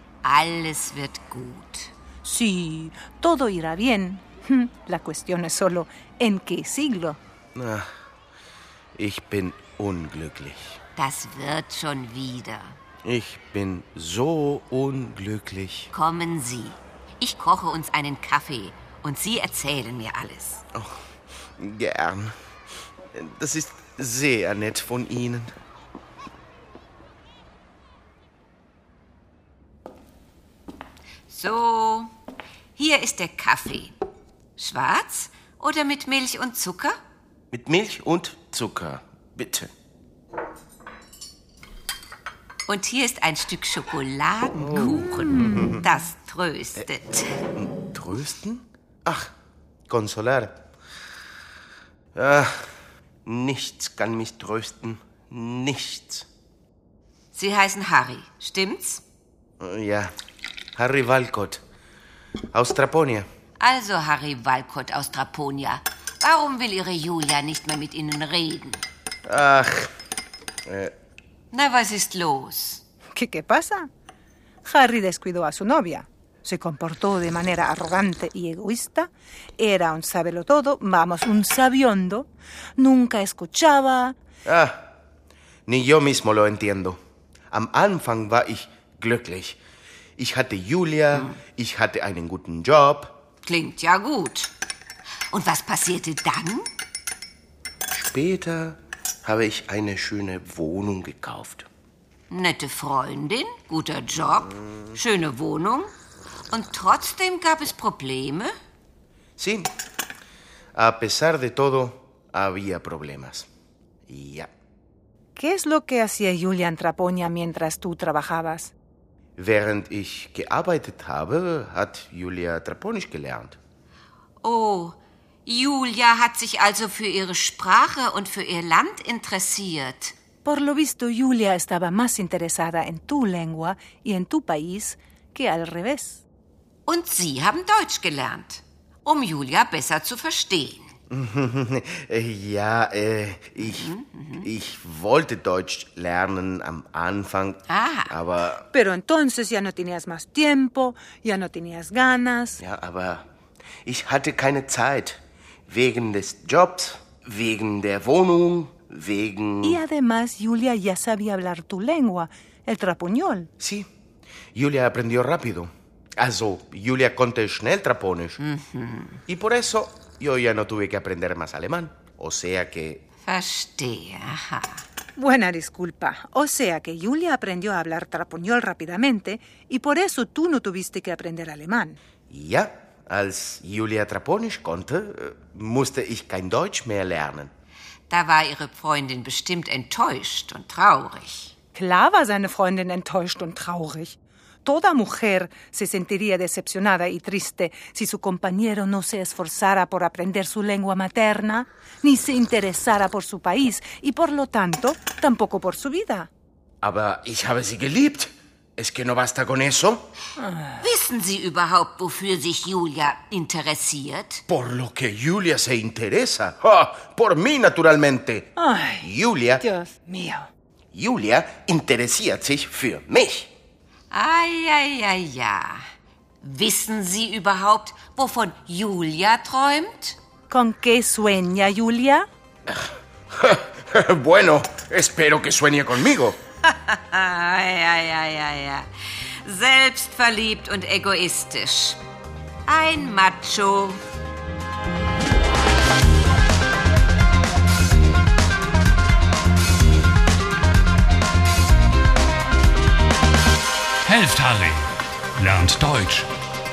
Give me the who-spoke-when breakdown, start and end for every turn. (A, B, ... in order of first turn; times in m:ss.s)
0:00.2-0:01.9 A
0:02.2-0:07.2 B
0:07.5-0:07.9 C
0:09.0-0:10.8 C
0:11.0-0:12.8 A
0:13.0-0:15.9 C
0:15.9-0:20.6 A
0:21.6-0:22.3 C
0:23.1-0:25.5 C
0:31.3-0:32.1 A
0:32.8-0:34.0 A
0:34.6-0:37.0 A
0:37.5-0:39.7 C
0:42.7-0:47.4 A
0:44.6-0:45.8 C
0:45.2-0:45.8 B
0:47.5-0:49.3 C
0:49.9-0:50.5 C
0:52.1-0:52.6 C
0:53.2-0:56.2 C
0:57.3-0:59.0 A
0:59.6-1:00.1 C
1:00.8-1:01.6 C
1:02.5-1:03.2 C
1:03.6-1:08.8 A
1:09.3-1:09.9 C
1:10.7-1:10.9 C
1:11.5-1:12.8 A
1:13.1-1:13.9 B
1:14.6-1:24.2 B
1:24.4-1:24.9 C
1:25.7-1:27.0 C
1:27.5-1:29.6 C
1:30.2-1:33.1 C
1:33.4-1:34.5 A
1:35.3-1:36.7 A
1:37.9-1:41.7 C
1:42.3-1:45.9 A
1:44.7-1:45.0 C
1:46.5-1:48.5 A
1:49.4-1:49.7 C
1:50.8-1:53.5 C
1:54.1-1:54.5 C
1:55.4-1:58.7 B
1:59.4-2:03.6 C
2:04.4-2:10.1 A
2:10.4-2:16.2 B
2:16.9-2:21.0 A
2:21.1-2:28.6 C
2:23.6-2:24.5 A
2:27.7-2:28.1 A
2:28.7-2:32.6 B
2:32.6-2:33.2 C
2:33.8-2:39.8 C
2:39.6-2:43.5 B
2:43.6-2:43.9 C
2:44.5-2:48.4 C
2:48.4-2:49.2 A
2:49.3-2:53.0 C
2:53.2-2:54.8 A
2:55.2-3:02.0 B
3:02.3-3:07.5 C
3:08.1-3:11.5 A
3:11.7-3:26.3 B
3:26.8-3:30.1 C
3:30.4-3:30.8 B
3:30.8-3:34.4 A
3:34.5-3:39.6 C
3:38.6-3:40.5 B
3:40.9-3:43.5 C
3:44.1-3:45.8 A
3:46.4-3:50.2 A
3:50.5-3:52.2 B
3:52.7-3:56.4 C
3:56.6-3:58.9 A
3:59.4-4:02.0 A
4:02.6-4:04.0 A
4:14.0-4:16.3 D